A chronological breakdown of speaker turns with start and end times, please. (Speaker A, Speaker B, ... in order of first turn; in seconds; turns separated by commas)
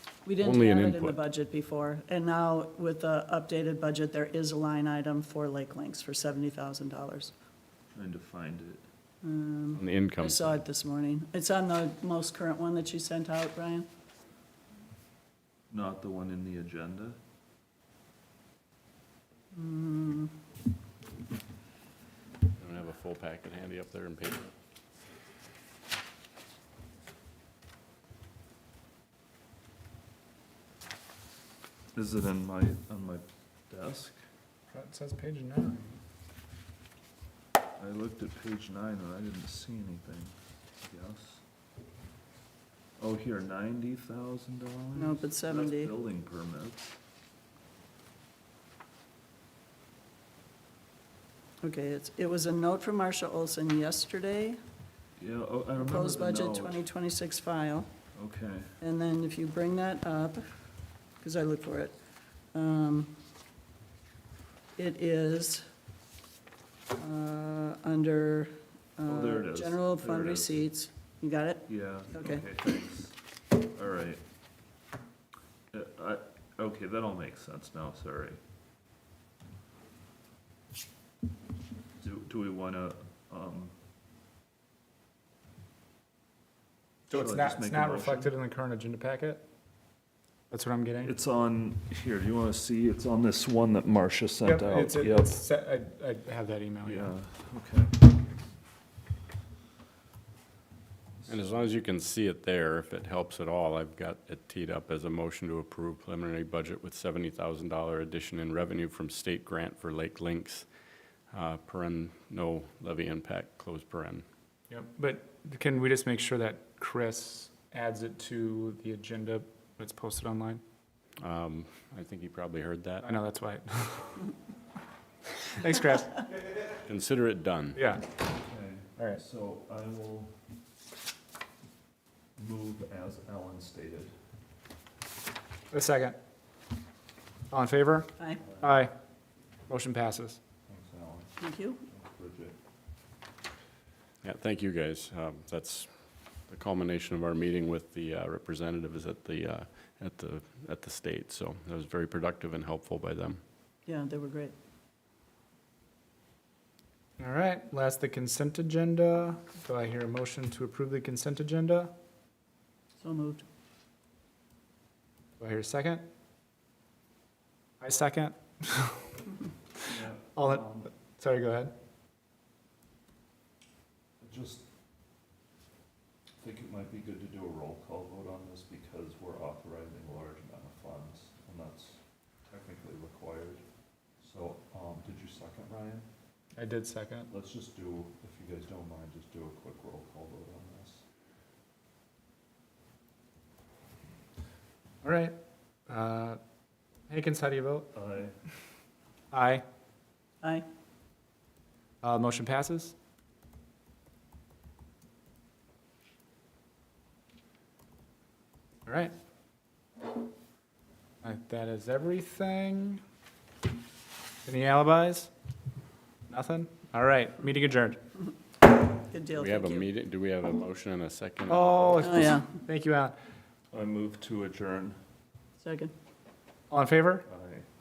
Speaker A: 0.2-7.3, Speaker B: 0.4-1.2, Speaker C: 7.9-8.8, Speaker A: 9.2-13.9, Speaker B: 9.8-10.6, Speaker C: 15.7-17.2, Speaker A: 19.5-20.3, Speaker B: 22.6-24.5, Speaker C: 31.9-34.2, Speaker D: 34.7-36.0, Speaker C: 37.8-41.4, Speaker C: 43.0-47.0, Speaker A: 45.0-45.9, Speaker A: 51.6-54.6, Speaker C: 55.2-56.8, Speaker A: 55.8-57.9, Speaker C: 58.1-58.8, Speaker A: 58.8-60.5, Speaker A: 61.2-62.0, Speaker A: 62.5-63.1, Speaker A: 64.8-65.6, Speaker A: 67.0-72.5, Speaker C: 69.1-70.7, Speaker C: 71.7-74.2, Speaker C: 75.7-78.4, Speaker C: 82.0-83.7, Speaker D: 87.1-89.4, Speaker C: 87.1-88.3, Speaker D: 90.5-91.1, Speaker C: 91.0-95.4, Speaker D: 94.4-97.1, Speaker C: 96.8-98.0, Speaker C: 101.2-101.6, Speaker B: 101.3-110.7, Speaker B: 111.3-114.3, Speaker D: 114.7-120.6, Speaker B: 121.2-123.1, Speaker D: 123.0-124.3, Speaker D: 125.5-126.3, Speaker B: 126.8-127.8, Speaker D: 127.8-128.1, Speaker C: 128.4-130.3, Speaker C: 132.4-134.1, Speaker D: 135.7-136.2, Speaker D: 137.5-138.9, Speaker C: 138.4-138.9, Speaker D: 139.7-140.4, Speaker C: 140.7-142.6, Speaker A: 141.4-141.8, Speaker B: 144.2-145.9, Speaker B: 146.5-153.4, Speaker A: 153.9-154.5, Speaker D: 157.2-161.9, Speaker A: 163.0-163.4, Speaker D: 165.4-166.0, Speaker D: 167.8-169.0, Speaker C: 169.8-170.9, Speaker D: 170.3-171.7, Speaker C: 174.2-174.7, Speaker C: 176.4-183.6, Speaker C: 184.2-186.1, Speaker D: 186.6-187.3, Speaker C: 187.3-191.0, Speaker D: 195.0-195.3, Speaker D: 195.9-196.4, Speaker D: 197.1-197.9, Speaker C: 197.9-198.4, Speaker D: 199.3-199.6, Speaker D: 202.0-202.9, Speaker D: 208.9-209.1, Speaker D: 211.2-213.0, Speaker D: 214.4-215.3, Speaker D: 216.3-218.0, Speaker A: 219.1-219.9, Speaker B: 219.3-222.1, Speaker D: 221.5-223.2, Speaker A: 222.0-222.6, Speaker C: 223.7-225.0, Speaker A: 225.6-225.9, Speaker D: 226.7-227.3, Speaker C: 227.3-227.7